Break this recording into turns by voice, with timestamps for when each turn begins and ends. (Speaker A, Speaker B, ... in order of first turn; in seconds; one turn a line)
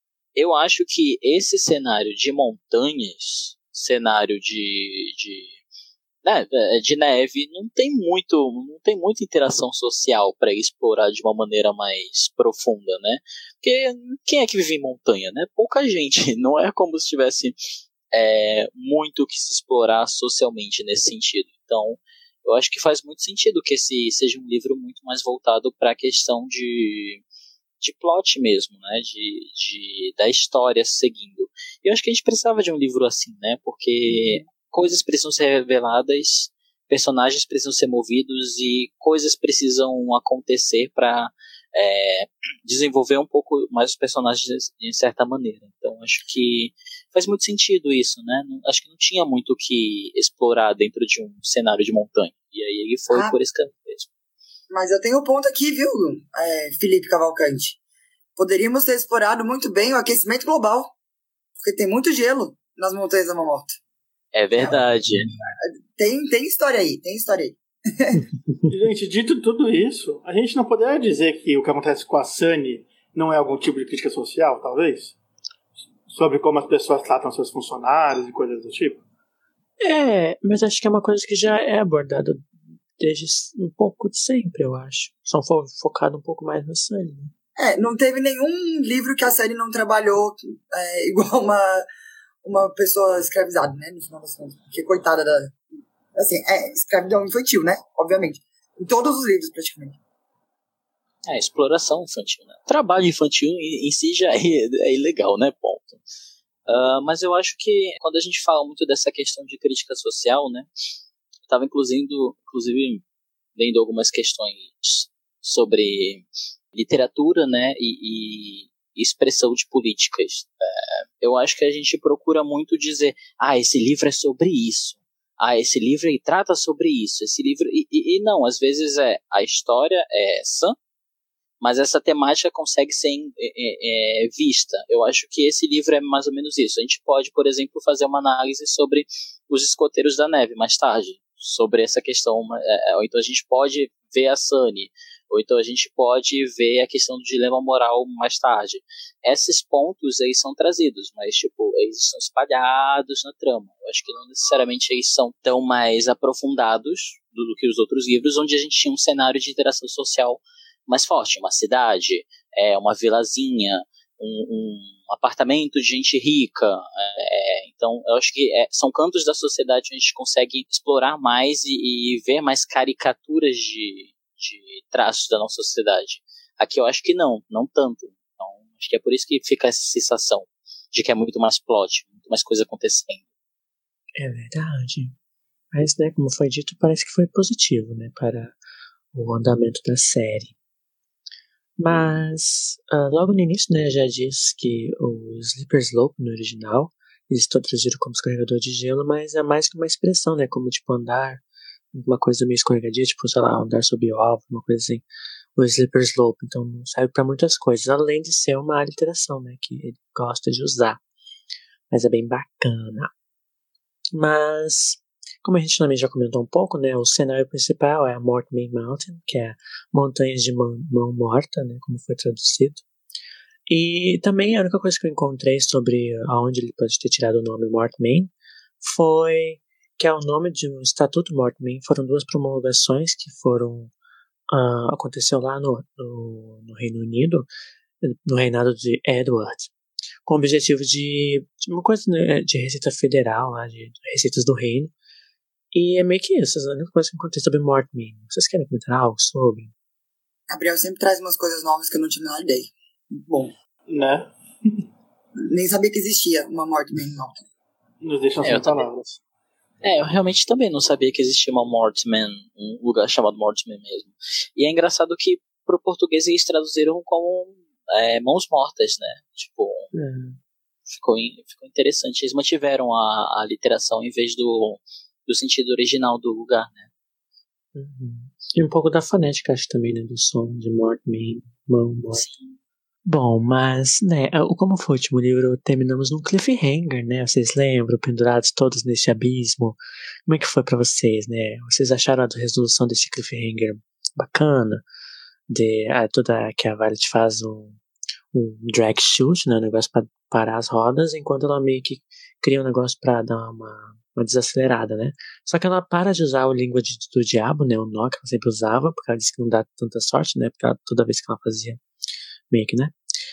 Speaker A: 0.3-5.6
Speaker A: 6.2-17.5
Speaker A: 18.1-27.2
Speaker A: 27.8-54.1
Speaker B: 54.7-57.8
Speaker B: 58.4-60.9
Speaker B: 61.6-63.7
Speaker A: 64.3-65.3
Speaker B: 66.0-68.2
Speaker C: 68.7-75.1
Speaker C: 76.1-79.0
Speaker D: 79.8-87.3
Speaker B: 87.6-91.8
Speaker B: 92.4-95.6
Speaker B: 96.2-100.0
Speaker A: 101.2-106.0
Speaker A: 106.7-110.7
Speaker A: 111.5-113.0
Speaker A: 113.5-130.7
Speaker A: 131.6-183.2
Speaker D: 184.2-185.1
Speaker D: 185.7-188.6
Speaker D: 189.1-190.5
Speaker D: 191.8-201.4
Speaker D: 201.9-205.0
Speaker D: 205.6-211.0
Speaker D: 211.9-213.1
Speaker D: 214.1-222.8
Speaker D: 223.7-233.9
Speaker D: 234.5-237.5
Speaker D: 238.0-239.7
Speaker D: 240.2-244.9
Speaker D: 245.7-249.7
Speaker B: 250.5-253.5
Speaker C: 253.9-254.8
Speaker B: 255.4-257.4
Speaker C: 258.0-259.2
Speaker A: 258.4-258.8
Speaker A: 259.8-269.9
Speaker D: 269.9-270.4
Speaker A: 270.9-276.9
Speaker D: 277.7-282.2
Speaker A: 282.1-282.6
Speaker D: 283.0-294.8
Speaker D: 295.5-297.8
Speaker D: 298.3-311.8
Speaker D: 312.5-312.9